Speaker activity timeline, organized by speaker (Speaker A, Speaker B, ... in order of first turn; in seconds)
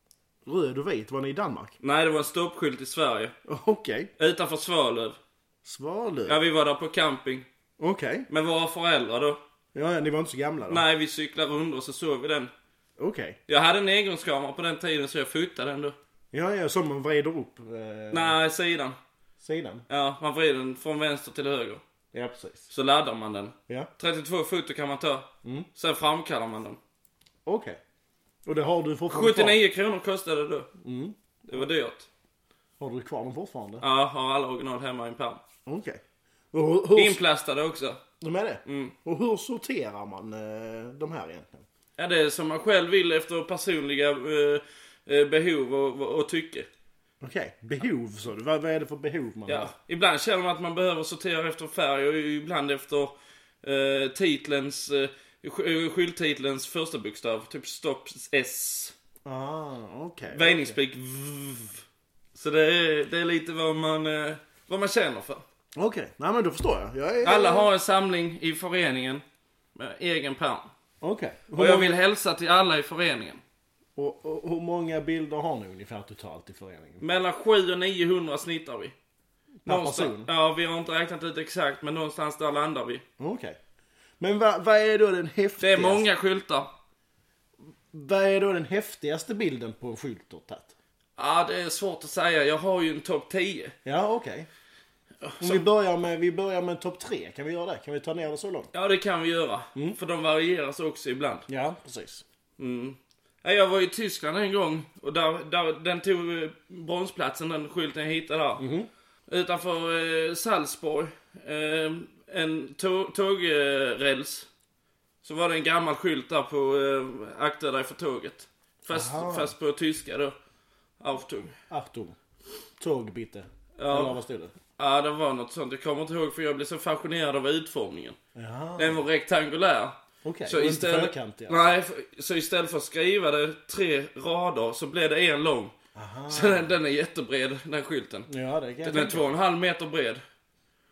Speaker A: 0.5-1.8, 3.5-4.1, 5.6-6.4, 7.8-8.3, 9.7-10.8, 13.0-13.4, 16.3-18.4, 19.4-19.9, 22.1-22.7, 27.5-27.8, 28.4-29.6, 30.8-31.6, 32.8-33.9, 35.7-36.0, 36.5-37.2, 38.2-41.6, 47.2-49.7, 59.2-60.8, 65.8-67.7, 71.0-72.0, 74.0-77.0, 79.6-80.3, 83.2-83.6, 84.2-86.1, 87.9-90.7, 93.8-94.5, 95.4-98.7, 101.5-102.2, 108.6-108.9, 118.9-119.5, 121.7-122.2, 122.8-124.5, 128.3-129.1, 130.2-131.8, 135.9-136.8, 138.3-139.3
Speaker B: 1.8-3.4, 4.2-5.2, 6.3-7.5, 8.3-9.4, 10.7-12.5, 13.5-16.0, 18.1-19.0, 19.9-21.8, 22.7-26.8, 29.1-30.7, 31.5-32.1, 33.8-35.4, 37.0-38.0, 38.6-39.0, 42.0-46.7, 49.5-58.9, 60.3-65.4, 67.2-69.2, 69.8-70.7, 71.5-73.4, 77.0-79.0, 79.7-83.0, 85.6-86.7, 91.2-93.8, 95.2-95.7, 98.7-101.5, 102.6-108.7, 109.3-114.5, 115.2-120.3, 121.0-121.5, 123.8-124.2, 124.8-128.2, 128.8-135.7, 136.3-138.3, 138.8-140.2